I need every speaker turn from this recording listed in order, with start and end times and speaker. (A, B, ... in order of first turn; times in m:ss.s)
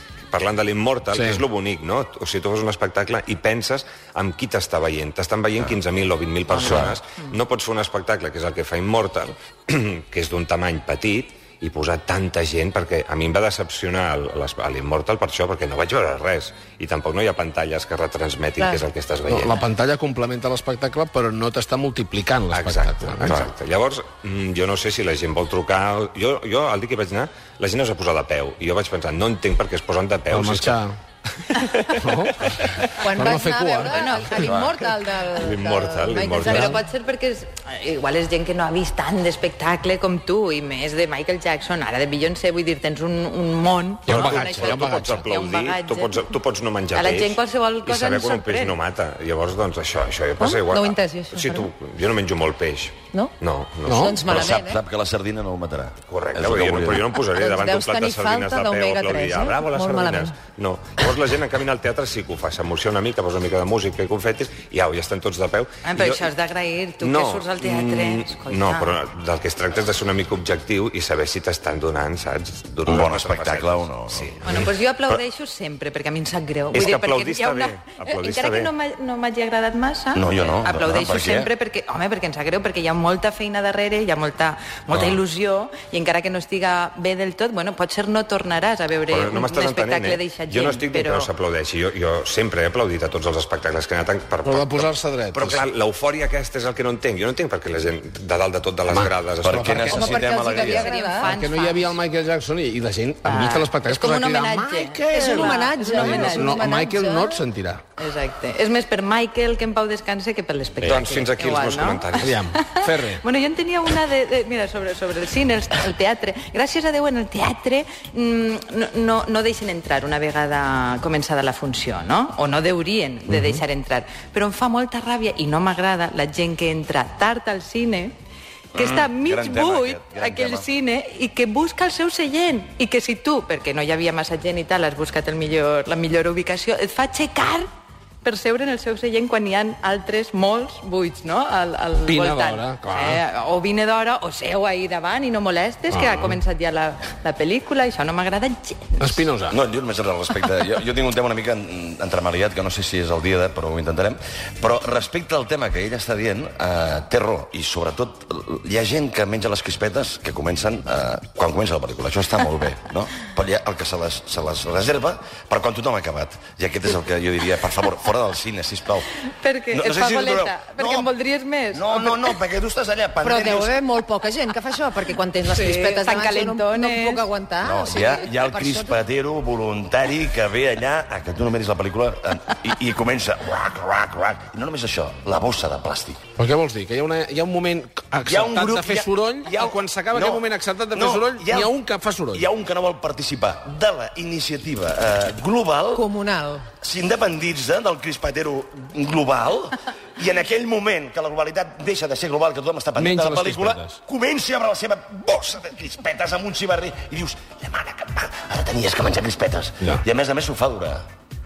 0:00.3-0:19.6 A
0:01.1-0:01.4 B
0:06.6-0:07.0 C
0:06.6-0:07.0 D
0:19.3-0:23.4 B
0:22.5-0:30.8 A
0:30.3-0:31.0 B
0:31.4-0:32.6 A
0:31.9-0:34.6 B
0:33.0-0:36.8 E
0:33.9-0:34.4 C
0:34.4-0:34.7 D
0:35.4-0:36.7 A
0:36.4-0:46.2 C
0:36.5-0:36.8 B
0:44.0-0:45.2 B
0:44.1-0:54.0 A
0:46.9-0:48.8 C
0:50.4-0:51.7 E
0:53.8-0:54.2 B
0:53.9-0:54.8 E
0:54.2-0:57.1 D
0:56.1-1:06.2 A
0:57.2-1:00.4 E
1:05.8-1:09.0 C
1:07.0-1:14.6 A
1:12.8-1:15.2 D
1:14.4-1:31.3 C
1:16.7-1:18.7 A
1:20.1-1:21.5 D
1:24.9-1:25.2 A
1:29.1-1:40.0 A
1:34.4-1:35.6 B
1:38.9-1:40.2 B
1:39.4-1:40.9 D
1:39.9-1:41.4 E
1:40.4-1:42.0 C
1:41.2-1:47.8 B
1:43.2-1:46.7 C
1:45.1-1:47.4 E
1:48.0-2:08.1 C
1:50.8-1:52.4 A
1:52.2-1:53.2 B
2:03.3-2:03.6 B
2:08.7-2:10.7 D
2:08.7-2:17.7 C
2:18.2-2:29.3 C
2:22.0-2:23.2 B
2:25.9-2:26.4 B
2:29.0-2:29.6 B
2:29.5-2:49.1 D
2:49.2-2:52.3 C
2:49.7-2:51.1 D
2:51.7-2:53.8 D
2:53.2-2:59.0 E
2:55.5-2:57.2 C
2:57.6-3:06.2 D
3:06.4-3:12.4 B
3:08.3-3:11.7 D
3:12.3-3:16.0 D
3:15.9-3:16.7 E
3:16.8-3:31.0 D
3:23.0-3:24.0 B